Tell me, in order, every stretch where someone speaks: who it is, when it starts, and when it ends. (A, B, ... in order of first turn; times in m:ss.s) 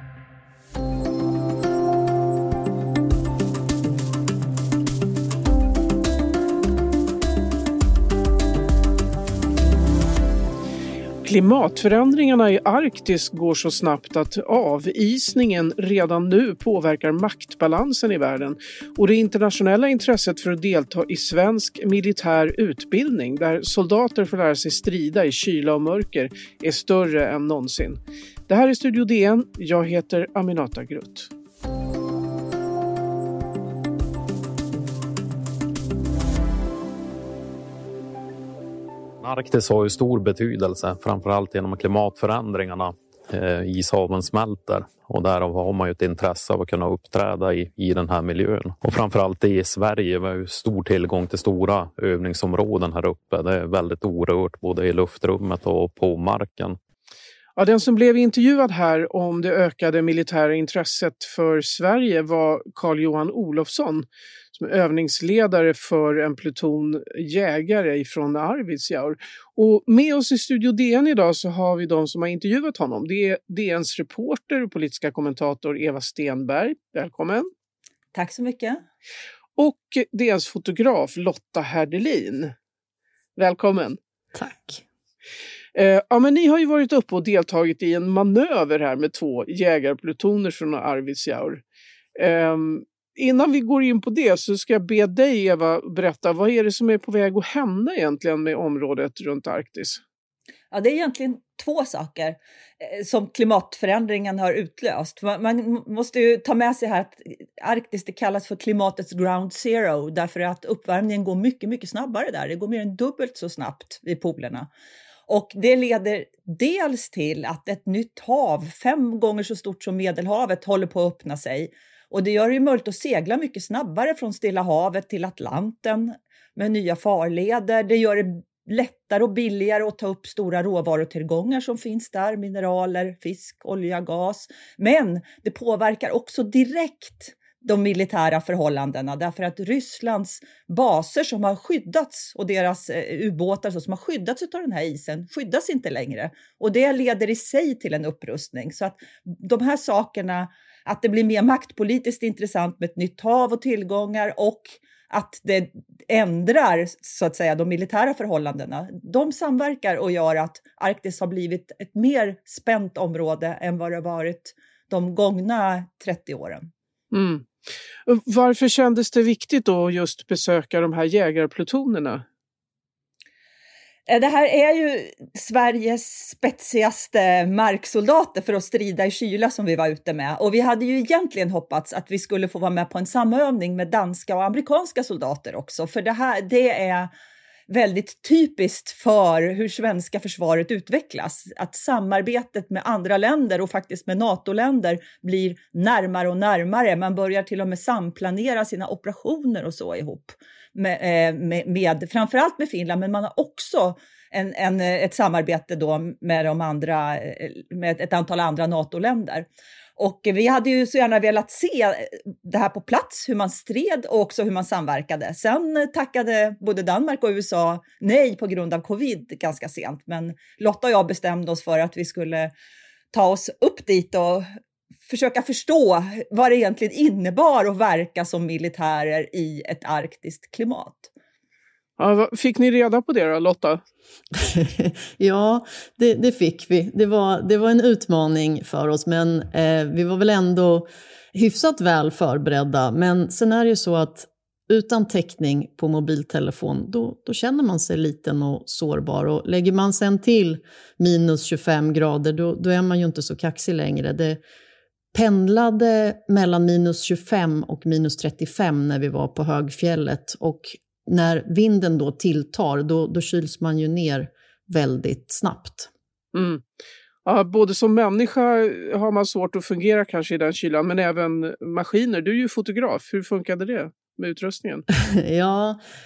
0:11.2-0:31.3 A
0:39.2-0:56.8 B
0:57.6-1:17.5 A
1:18.2-1:18.8 C
1:19.6-1:22.5 A
1:23.4-1:24.0 A
1:24.3-1:24.8 D
1:25.8-1:31.6 A
1:32.2-1:40.0 A
1:40.7-1:54.7 C
1:55.3-2:46.7 C
2:47.1-2:47.5 A
2:48.1-2:52.2 A
2:54.1-3:07.1 C
3:07.7-3:42.5 C
3:43.1-3:44.5 C
3:45.1-3:51.1 C
3:52.0-3:53.8 A
3:54.4-4:14.4 D
4:15.1-4:25.9 D
4:26.3-4:26.6 A
4:27.2-4:34.8 A
4:35.0-4:35.8 D